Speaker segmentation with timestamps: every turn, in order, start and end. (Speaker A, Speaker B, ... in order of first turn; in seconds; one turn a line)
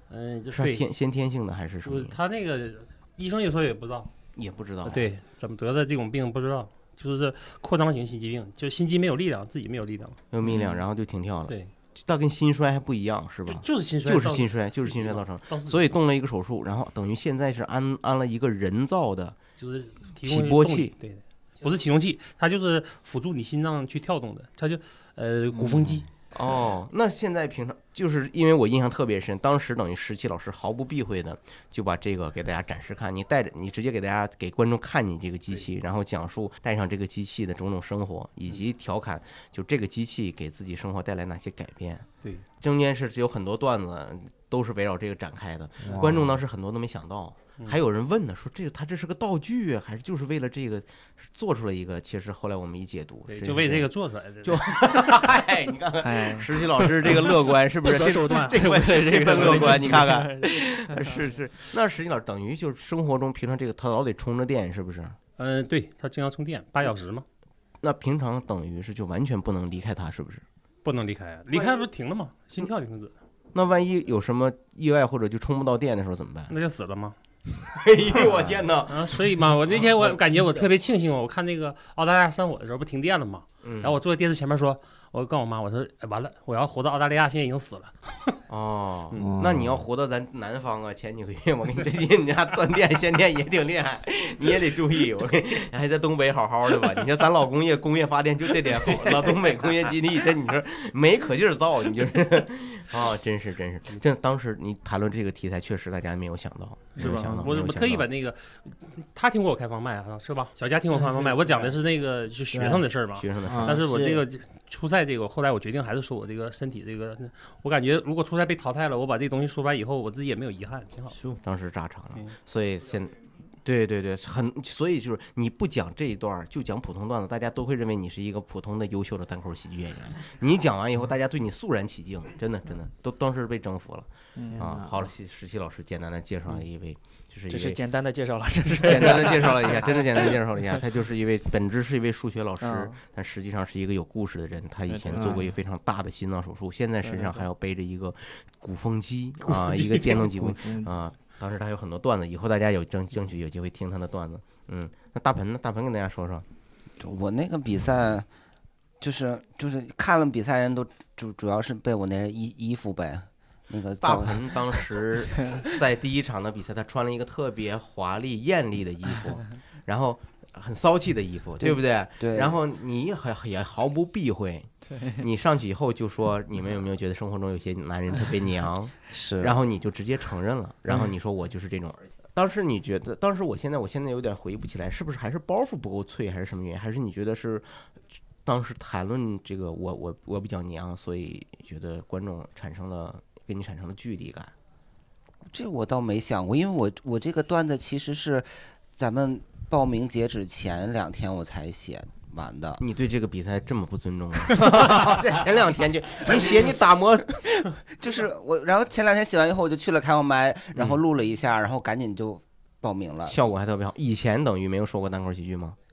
Speaker A: 0.1-0.9
Speaker B: 0.5-2.2
Speaker A: 1.8-4.1
Speaker B: 4.4-5.1
Speaker A: 4.8-10.2
Speaker B: 10.3-19.4
Speaker A: 13.5-15.9
Speaker A: 19.6-26.1
Speaker B: 20.2-20.9
Speaker B: 26.3-42.1
Speaker B: 42.6-53.9
Speaker C: 45.8-46.3
Speaker A: 53.3-55.3
Speaker B: 54.4-65.2
Speaker D: 56.0-61.2
Speaker A: 65.4-67.3
Speaker B: 67.8-70.4
Speaker A: 70.8-73.2
Speaker B: 73.5-76.5
Speaker A: 76.5-77.2
Speaker B: 77.7-79.2
Speaker A: 78.2-88.4
Speaker B: 83.6-84.0
Speaker B: 88.5-108.1
Speaker C: 89.2-89.8
Speaker A: 107.0-121.2
Speaker C: 112.5-112.8
Speaker B: 113.2-113.8
Speaker C: 113.4-114.2
Speaker C: 121.1-121.4
Speaker B: 121.4-137.8
Speaker D: 134.4-134.6
Speaker C: 134.5-135.1
Speaker D: 137.5-140.3
Speaker B: 138.8-156.4
Speaker D: 142.6-143.0
Speaker D: 144.9-145.5
Speaker D: 147.0-147.5
Speaker D: 149.7-150.8
Speaker E: 157.0-158.3
Speaker E: 159.0-164.8
Speaker B: 164.0-187.8
Speaker D: 165.4-165.7
Speaker E: 171.6-172.5
Speaker D: 174.9-175.3
Speaker E: 179.1-179.6
Speaker B: 188.4-194.5
Speaker E: 195.5-202.8
Speaker B: 202.8-207.4
Speaker E: 206.3-206.6
Speaker E: 207.5-213.4
Speaker B: 210.8-211.0
Speaker B: 213.3-215.8